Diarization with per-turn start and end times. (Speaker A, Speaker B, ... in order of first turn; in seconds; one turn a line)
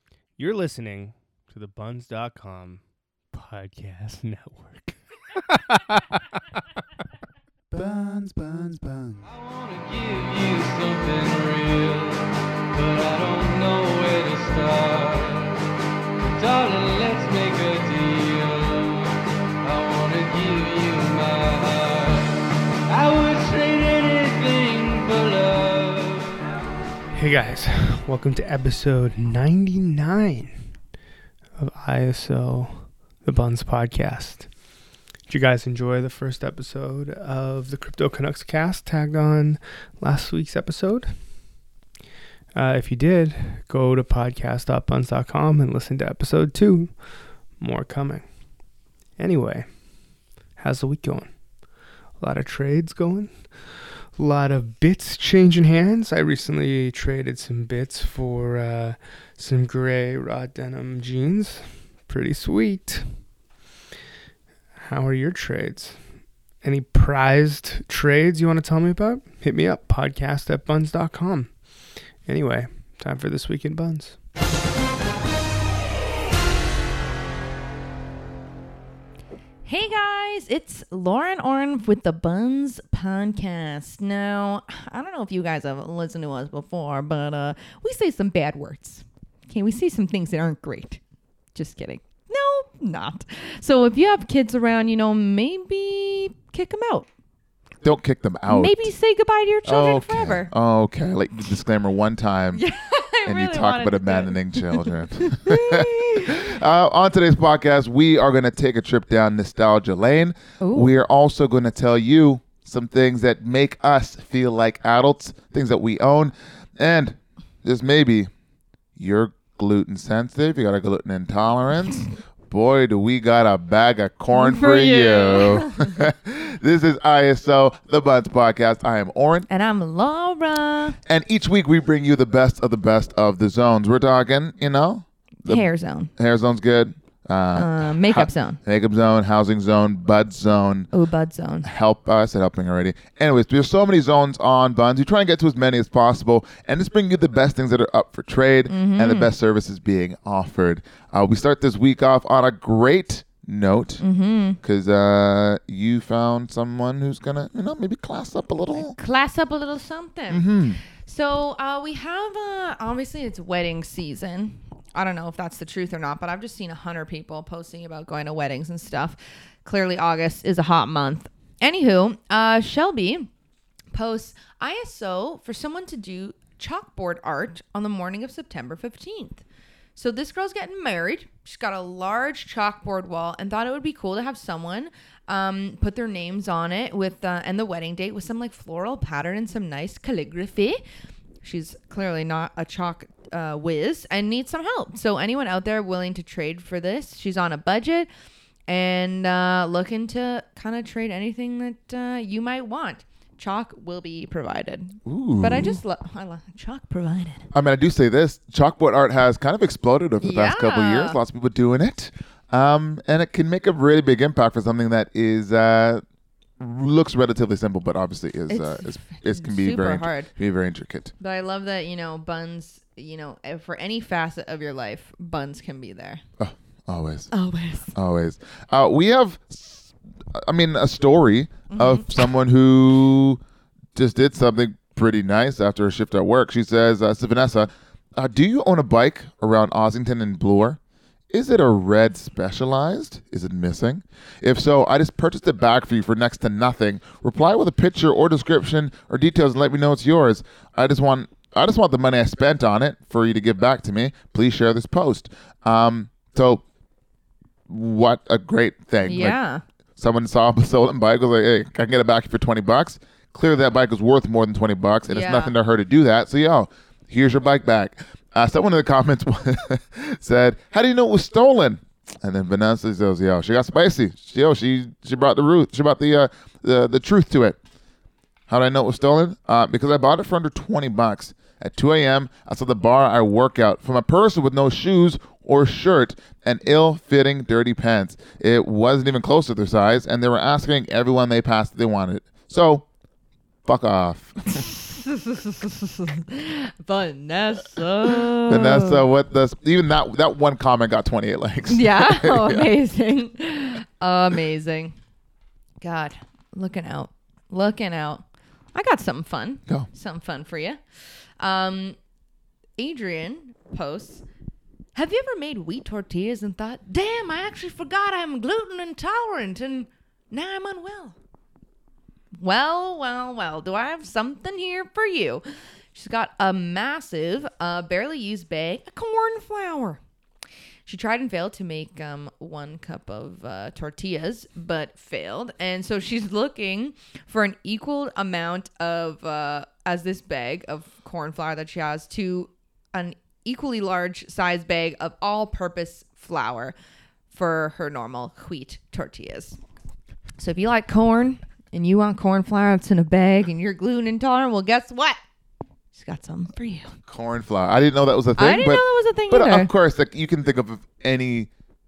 Speaker A: 0.4-2.8
Speaker A: 3.3-4.9
Speaker A: 5.5-5.8
Speaker B: 7.9-9.0
Speaker A: 8.0-8.7
Speaker C: 9.3-15.6
Speaker C: 16.3-26.5
Speaker A: 27.1-30.6
Speaker A: 31.6-34.5
Speaker A: 35.3-41.3
Speaker A: 42.5-48.3
Speaker A: 49.1-49.8
Speaker A: 50.6-51.4
Speaker A: 52.2-63.2
Speaker A: 64.8-66.0
Speaker A: 66.6-71.5
Speaker A: 72.2-74.2
Speaker D: 79.7-91.0
Speaker D: 91.5-97.1
Speaker B: 97.8-98.9
Speaker D: 98.5-100.5
Speaker B: 99.7-102.7
Speaker D: 102.5-106.4
Speaker B: 103.3-118.3
Speaker D: 110.6-110.9
Speaker B: 119.0-129.5
Speaker D: 124.3-125.9
Speaker D: 129.5-131.0
Speaker B: 131.1-135.7
Speaker D: 135.4-136.1
Speaker B: 136.2-140.9
Speaker D: 137.6-138.6
Speaker D: 140.9-141.7
Speaker B: 141.6-154.0
Speaker D: 148.7-149.3
Speaker D: 154.0-154.6
Speaker B: 154.6-159.0
Speaker D: 158.8-173.3
Speaker B: 160.3-160.8
Speaker D: 173.9-179.4
Speaker D: 180.0-190.8
Speaker D: 191.4-198.1
Speaker D: 198.7-207.5
Speaker B: 205.1-205.8
Speaker B: 207.5-216.0
Speaker D: 210.2-211.2
Speaker B: 216.6-221.1
Speaker D: 218.5-220.3
Speaker D: 221.2-226.2
Speaker B: 226.4-227.3
Speaker D: 227.3-227.9
Speaker B: 227.9-233.4
Speaker D: 231.7-232.1
Speaker B: 234.0-240.8
Speaker B: 241.3-256.6
Speaker B: 257.7-259.4
Speaker D: 259.0-259.6
Speaker B: 260.0-277.6
Speaker D: 265.1-265.6
Speaker B: 278.5-292.9
Speaker B: 293.6-294.6
Speaker D: 294.5-299.1
Speaker B: 298.5-302.7
Speaker D: 301.7-304.9
Speaker D: 305.8-310.8
Speaker D: 311.4-312.0
Speaker D: 312.8-314.2
Speaker D: 314.9-321.2
Speaker D: 322.4-330.0
Speaker D: 330.9-346.8
Speaker D: 347.3-349.6
Speaker D: 350.4-355.2
Speaker D: 355.9-356.9
Speaker B: 357.1-361.5
Speaker D: 358.4-359.7